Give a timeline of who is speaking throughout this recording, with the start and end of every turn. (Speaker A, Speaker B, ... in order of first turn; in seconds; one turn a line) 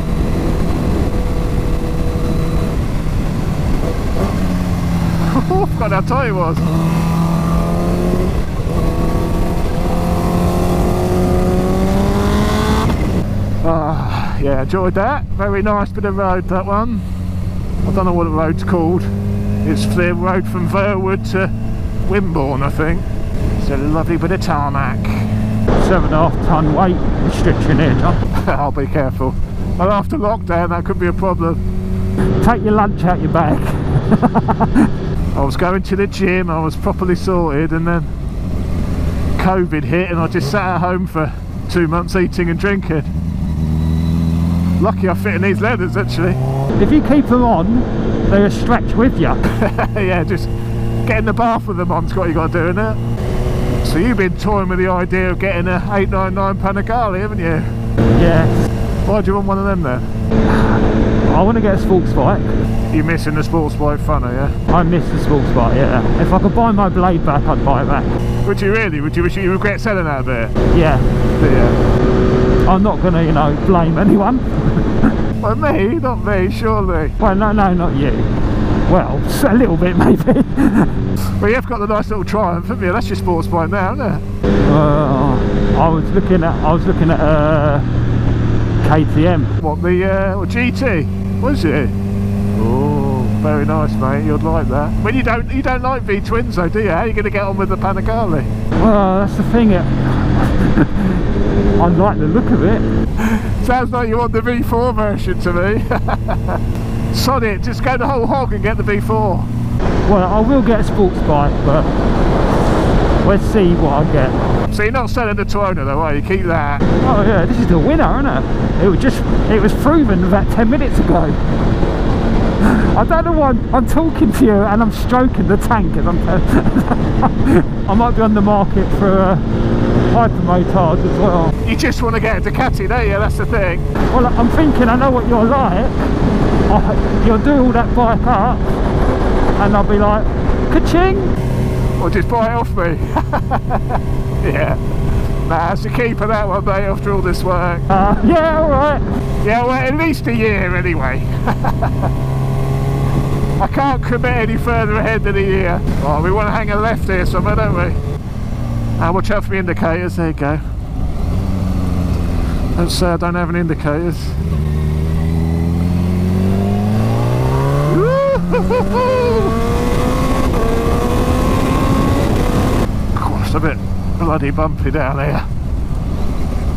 Speaker A: 5.2-6.7
Speaker A: 13.6-17.1
Speaker A: 17.8-19.1
Speaker A: 19.6-21.5
Speaker A: 22.1-23.1
Speaker A: 23.6-25.3
Speaker B: 25.8-28.2
Speaker A: 28.4-31.6
Speaker B: 32.4-34.9
Speaker A: 35.3-38.1
Speaker A: 39.4-43.1
Speaker A: 44.8-46.4
Speaker B: 46.8-49.4
Speaker A: 49.5-50.5
Speaker A: 51.0-53.0
Speaker A: 53.8-57.7
Speaker B: 58.1-58.6
Speaker A: 59.0-60.1
Speaker B: 60.5-62.6
Speaker A: 62.9-64.6
Speaker B: 64.7-68.1
Speaker A: 68.4-70.5
Speaker B: 70.7-71.1
Speaker A: 71.4-71.8
Speaker B: 72.7-75.2
Speaker A: 75.4-77.2
Speaker B: 77.2-78.3
Speaker B: 78.9-81.0
Speaker A: 81.4-84.2
Speaker B: 84.6-87.9
Speaker B: 88.8-89.5
Speaker A: 89.6-91.9
Speaker A: 92.5-98.5
Speaker B: 98.8-101.2
Speaker B: 101.8-102.8
Speaker A: 103.2-106.6
Speaker A: 107.1-109.5
Speaker B: 110.0-111.9
Speaker B: 113.2-114.5
Speaker A: 114.7-116.8
Speaker B: 117.0-121.4
Speaker B: 122.6-129.4
Speaker B: 130.0-131.5
Speaker A: 131.6-133.9
Speaker B: 134.1-135.9
Speaker B: 136.7-138.6
Speaker B: 139.6-141.3
Speaker A: 142.0-144.8
Speaker A: 145.4-147.9
Speaker B: 147.9-149.2
Speaker A: 149.4-152.1
Speaker A: 153.6-158.0
Speaker A: 159.0-160.6
Speaker A: 162.7-164.4
Speaker A: 167.9-169.5
Speaker A: 173.1-175.5